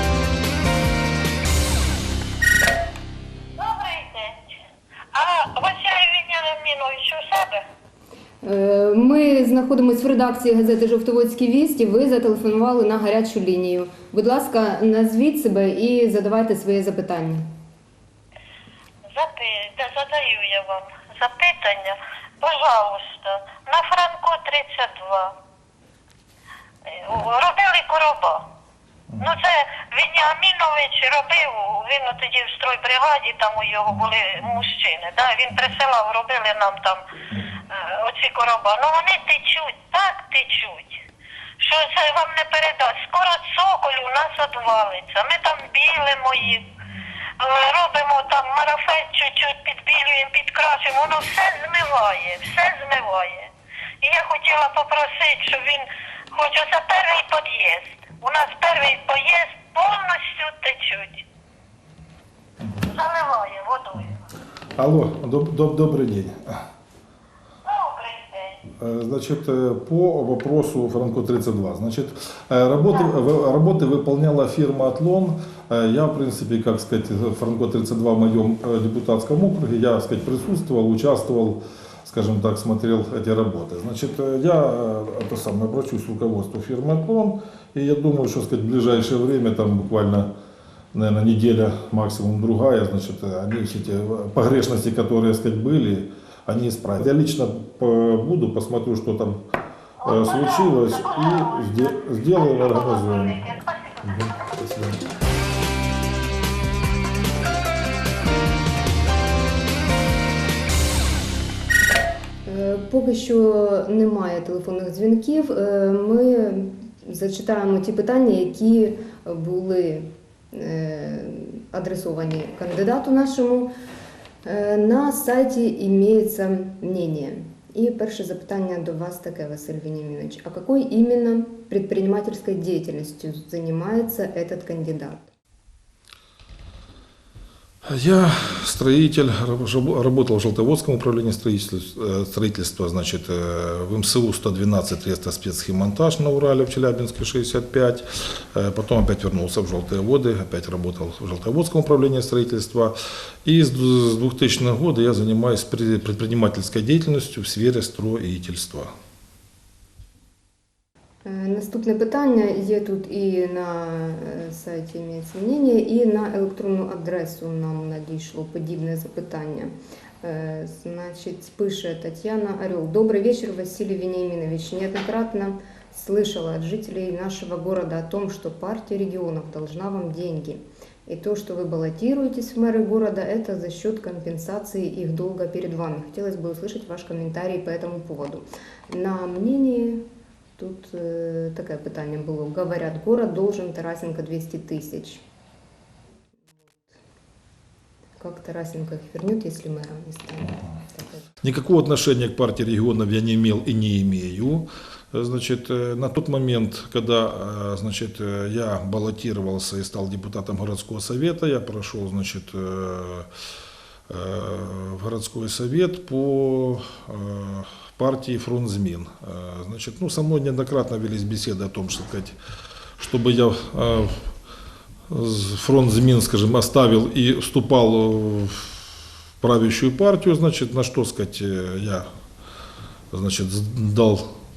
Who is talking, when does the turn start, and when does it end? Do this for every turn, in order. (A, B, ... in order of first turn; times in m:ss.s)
0:03.6-0:04.4 A
0:05.1-0:07.7 A
0:08.4-0:17.5 B
0:19.1-0:25.4 A
0:26.9-0:28.4 A
0:29.2-0:37.0 A
0:37.7-0:41.0 A
0:41.6-0:46.6 A
0:47.4-0:53.5 A
0:54.0-1:01.2 A
1:02.6-1:02.9 C
1:02.9-1:04.2 A
1:04.8-1:06.6 C
1:07.6-1:08.6 A
1:08.8-1:30.3 C
1:30.9-1:39.4 C
1:40.0-1:44.5 A
1:40.0-1:45.0 C
1:52.4-2:03.7 B
2:04.4-2:15.3 B
2:17.8-2:38.9 C
2:41.2-3:10.0 B
3:10.6-3:15.2 B
3:18.2-3:21.3 B
3:21.4-3:33.3 C
3:34.1-3:42.4 C
3:43.0-3:44.2 C
3:45.1-3:48.8 C
3:49.4-3:52.1 C
3:53.1-3:54.3 C